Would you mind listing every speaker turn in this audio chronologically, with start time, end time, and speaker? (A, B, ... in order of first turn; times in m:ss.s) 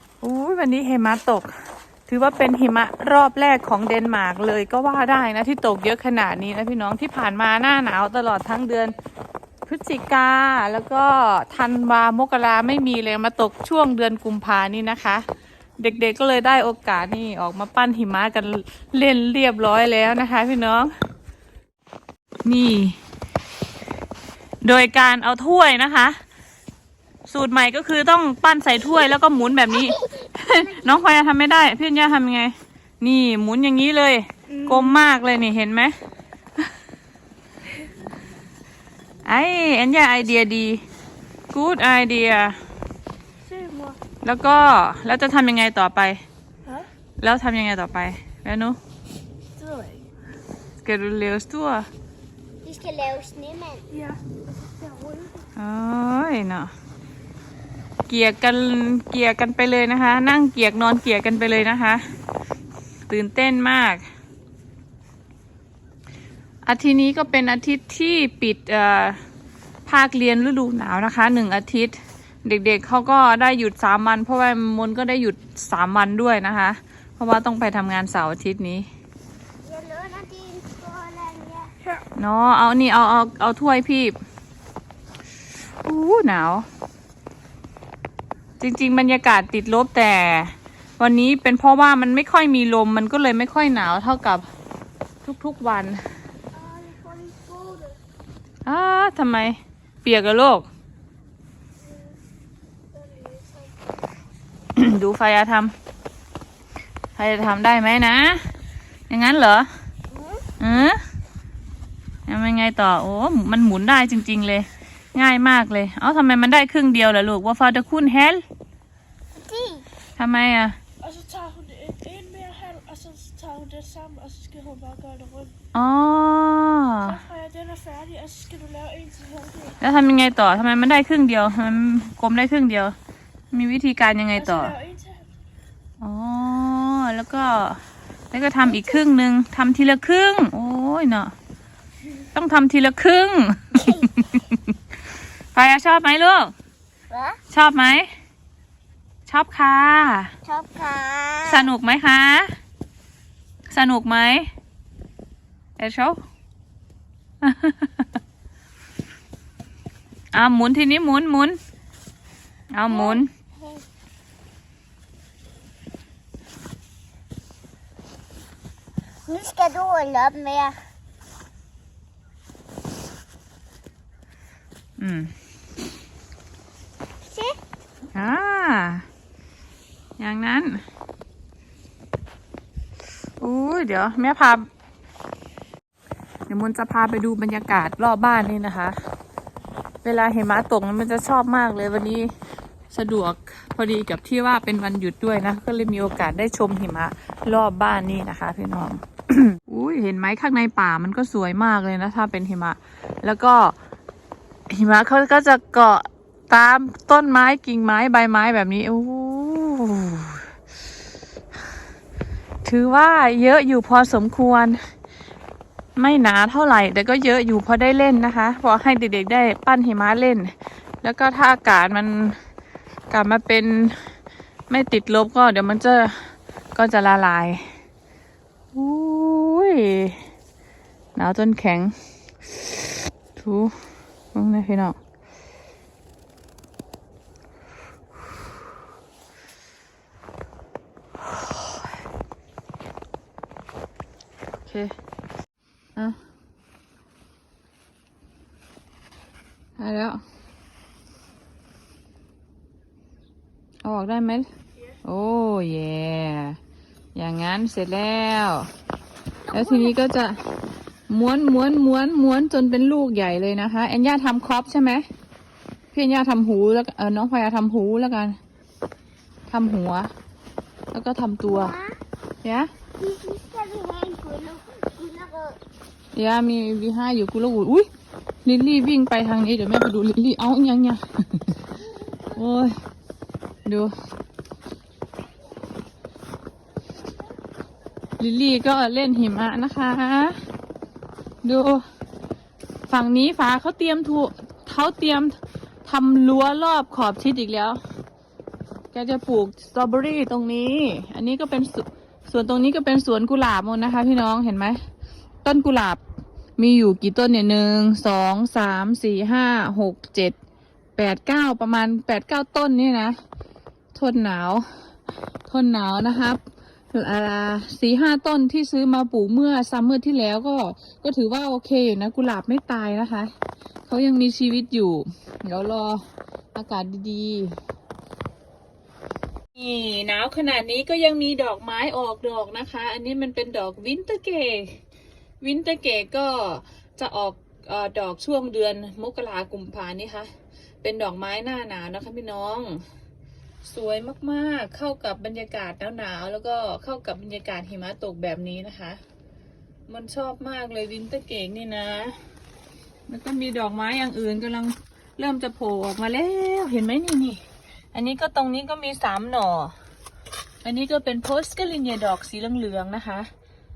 0:00.2-0:01.5 A
0:02.1-0:08.9 A
0:09.6-0:15.2 A
0:15.8-0:20.9 A
0:22.4-0:23.0 A
0:24.6-0:26.2 A
0:27.2-0:35.9 A
0:39.2-0:40.8 A
0:41.5-0:42.6 A
0:43.5-0:44.0 B
0:44.2-0:46.2 A
0:47.2-0:48.8 A
0:49.6-0:50.0 B
0:50.8-0:51.9 A
0:52.6-0:53.9 C
0:54.8-0:55.4 B
0:55.6-0:56.7 A
0:58.1-1:02.0 A
1:03.1-1:04.0 A
1:06.6-1:09.2 A
1:09.8-1:18.9 A
1:19.6-1:21.7 C
1:22.2-1:24.1 A
1:25.8-1:26.7 A
1:28.6-1:34.5 A
1:35.2-1:36.0 A
1:36.7-1:37.8 B
1:36.8-1:37.9 C
1:38.6-1:40.7 A
1:44.7-1:45.7 A
1:47.2-1:48.5 A
1:49.1-1:49.7 A
1:50.6-1:51.0 A
1:52.3-1:58.4 A
1:59.4-1:59.8 C
2:00.2-2:00.8 A
2:01.0-2:05.5 B
2:05.7-2:07.2 A
2:07.1-2:09.7 B
2:09.8-2:12.9 A
2:13.5-2:14.8 A
2:14.5-2:15.2 B
2:16.0-2:17.8 A
2:18.3-2:21.3 A
2:22.3-2:24.7 A
2:25.5-2:26.5 A
2:27.1-2:27.4 C
2:27.5-2:28.1 A
2:29.2-2:30.3 A
2:30.4-2:31.7 C
2:31.4-2:32.6 A
2:33.7-2:34.5 A
2:35.8-2:36.2 A
2:37.4-2:38.1 A
2:40.3-2:41.6 A
2:42.7-2:43.3 A
2:42.9-2:43.8 C
2:49.3-2:50.8 C
2:55.0-2:55.3 A
2:57.2-2:57.6 C
2:58.1-2:59.1 A
3:00.2-3:00.8 A
3:03.4-3:04.7 A
3:06.5-3:09.0 A
3:10.0-3:12.3 A
3:12.9-3:23.8 A
3:24.7-3:30.4 A
3:32.6-3:34.8 A
3:36.0-3:42.4 A
3:43.1-3:44.1 A
3:44.7-3:47.7 A
3:48.7-3:50.2 A
3:51.1-3:52.8 A
3:53.3-3:53.8 A
3:54.3-3:55.0 A
4:04.6-4:04.9 A
4:09.8-4:10.2 A
4:13.8-4:14.5 A
4:15.0-4:16.6 A
4:17.1-4:18.7 A
4:19.5-4:20.4 A
4:21.1-4:25.0 A
4:25.9-4:28.4 A
4:29.5-4:30.1 A
4:30.9-4:31.7 A
4:31.4-4:32.0 C
4:32.4-4:32.7 A
4:33.0-4:35.6 C
4:36.1-4:37.9 A
4:38.4-4:41.6 A
4:42.3-4:42.8 A
4:43.6-4:43.9 A
4:48.2-4:50.4 A
4:51.4-4:51.8 A
4:52.9-4:57.8 A
4:58.9-5:04.8 A
5:05.4-5:06.0 A
5:06.6-5:10.4 A
5:11.0-5:13.2 A
5:13.9-5:14.7 A
5:15.5-5:16.4 A
5:16.9-5:23.3 A
5:23.9-5:27.6 A
5:29.5-5:34.8 A
5:35.4-5:40.3 A
5:40.8-5:42.8 A
5:43.6-5:49.0 A
5:49.9-5:52.2 A
5:53.1-5:57.4 A
5:57.9-5:59.7 A
6:00.6-6:03.3 A